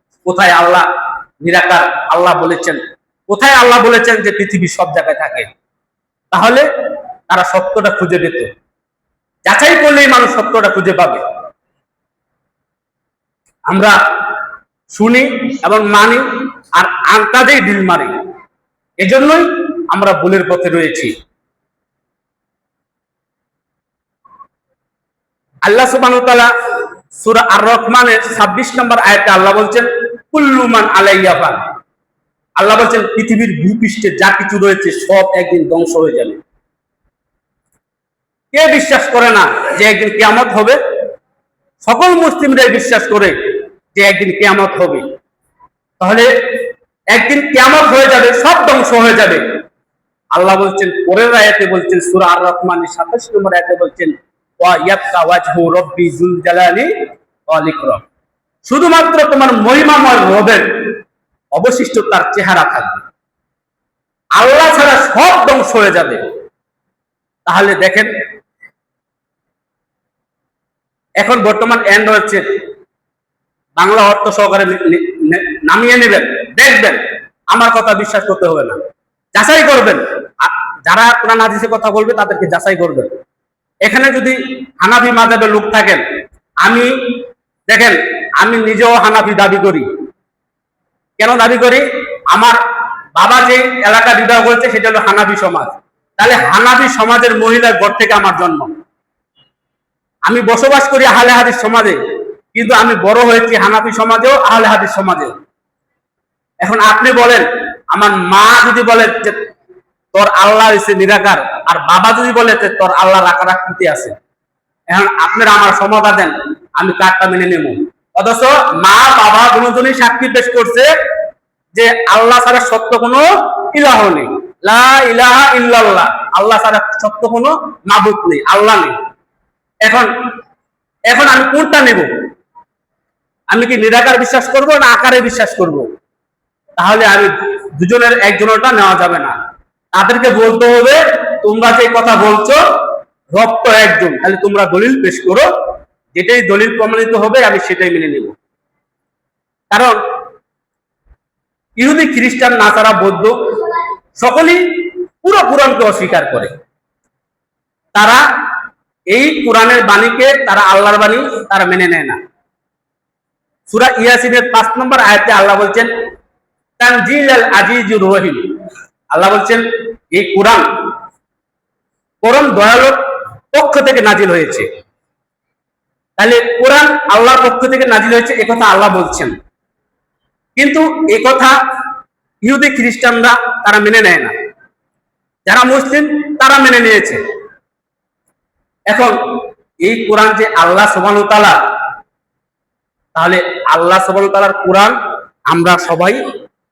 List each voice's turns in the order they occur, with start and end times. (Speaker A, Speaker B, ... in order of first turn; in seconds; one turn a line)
Speaker A: 0.2-0.9
Speaker A: 1.4-5.5
Speaker A: 6.3-6.7
Speaker A: 7.3-8.5
Speaker A: 9.5-11.2
Speaker A: 13.7-14.0
Speaker A: 14.9-18.1
Speaker A: 19.0-21.1
Speaker A: 25.6-26.5
Speaker A: 27.1-31.7
Speaker A: 32.6-36.4
Speaker A: 38.5-40.8
Speaker A: 41.8-43.4
Speaker A: 43.9-45.1
Speaker A: 46.0-46.3
Speaker A: 47.1-49.5
Speaker A: 50.3-56.9
Speaker A: 57.5-58.0
Speaker A: 58.6-61.0
Speaker A: 61.5-63.1
Speaker A: 64.4-66.2
Speaker A: 67.5-68.1
Speaker A: 71.2-72.5
Speaker A: 73.8-78.8
Speaker A: 79.3-83.1
Speaker A: 83.8-86.0
Speaker A: 86.6-86.9
Speaker A: 87.7-89.9
Speaker A: 91.2-92.6
Speaker A: 93.2-98.7
Speaker A: 100.3-102.0
Speaker A: 102.5-105.4
Speaker A: 106.6-109.4
Speaker A: 110.1-114.2
Speaker A: 114.9-120.9
Speaker A: 121.7-129.0
Speaker A: 129.8-130.1
Speaker A: 131.1-132.1
Speaker A: 133.5-135.9
Speaker A: 136.8-139.4
Speaker A: 139.9-142.7
Speaker A: 143.3-145.5
Speaker A: 146.1-148.4
Speaker A: 149.7-150.0
Speaker A: 151.8-156.5
Speaker A: 157.9-158.2
Speaker A: 159.1-162.2
Speaker A: 163.7-165.9
Speaker A: 166.8-168.5
Speaker A: 169.1-170.7
Speaker A: 172.2-173.0
Speaker A: 173.5-174.7
Speaker A: 176.2-179.4
Speaker A: 180.6-181.6
Speaker A: 182.4-184.3
Speaker A: 185.5-187.2
Speaker A: 188.9-189.2
Speaker A: 189.8-191.6
Speaker A: 193.2-195.0
Speaker A: 195.5-196.2